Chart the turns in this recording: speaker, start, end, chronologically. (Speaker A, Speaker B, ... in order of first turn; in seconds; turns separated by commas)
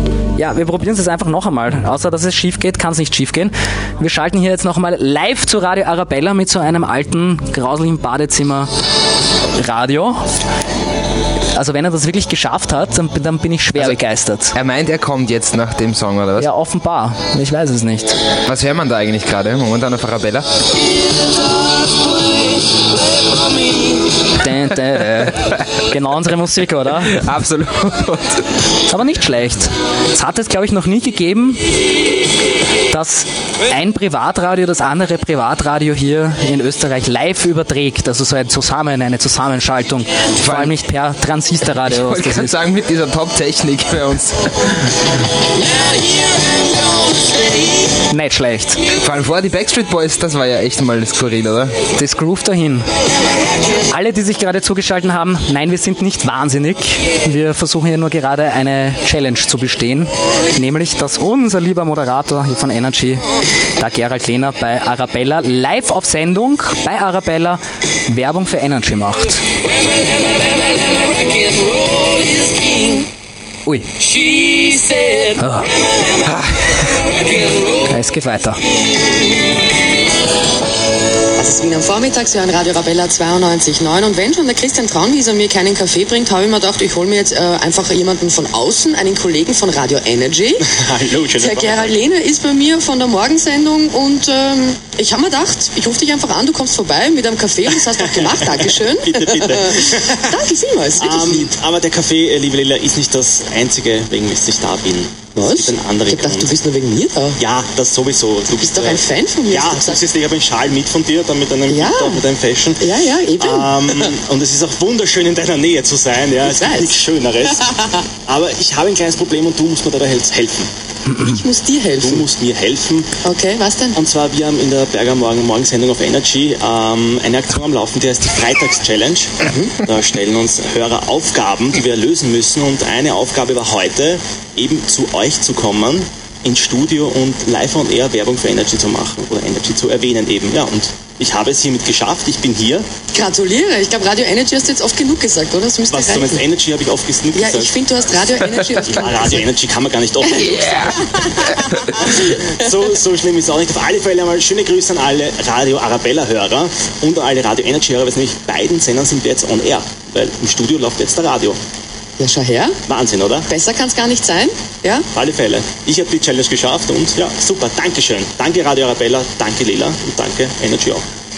Speaker A: 0.3-8.7, Speaker A: 9.5-10.3, Speaker A: 11.5-14.5, Speaker B: 14.5-16.5, Speaker A: 16.4-18.2, Speaker B: 18.4-20.5, Speaker A: 24.4-27.2, Speaker B: 27.1-28.4, Speaker A: 28.9-31.6, Speaker A: 32.9-42.5, Speaker B: 40.4-40.8, Speaker B: 41.8-44.9, Speaker A: 48.1-48.8, Speaker B: 49.0-51.8, Speaker A: 51.9-52.8, Speaker A: 53.9-63.2, Speaker A: 63.8-69.4, Speaker A: 73.7-73.9, Speaker A: 75.2-75.7, Speaker B: 76.2-76.8, Speaker A: 77.8-78.6, Speaker C: 81.4-90.6, Speaker D: 90.6-92.0, Speaker C: 91.4-101.5, Speaker D: 97.9-100.3, Speaker D: 101.0-106.5, Speaker C: 105.3-107.4, Speaker D: 107.4-120.7, Speaker C: 108.6-110.0, Speaker C: 111.7-112.2, Speaker C: 112.8-114.2, Speaker C: 116.4-117.0, Speaker C: 121.1-122.2, Speaker D: 122.0-123.1, Speaker C: 123.2-124.0, Speaker D: 123.9-142.8, Speaker C: 129.4-129.7, Speaker C: 143.1-146.4, Speaker D: 145.9-147.8, Speaker C: 147.3-149.4, Speaker D: 148.9-161.6, Speaker C: 150.4-152.1, Speaker C: 162.2-162.8, Speaker D: 162.9-163.5, Speaker C: 163.5-165.1, Speaker D: 165.1-171.0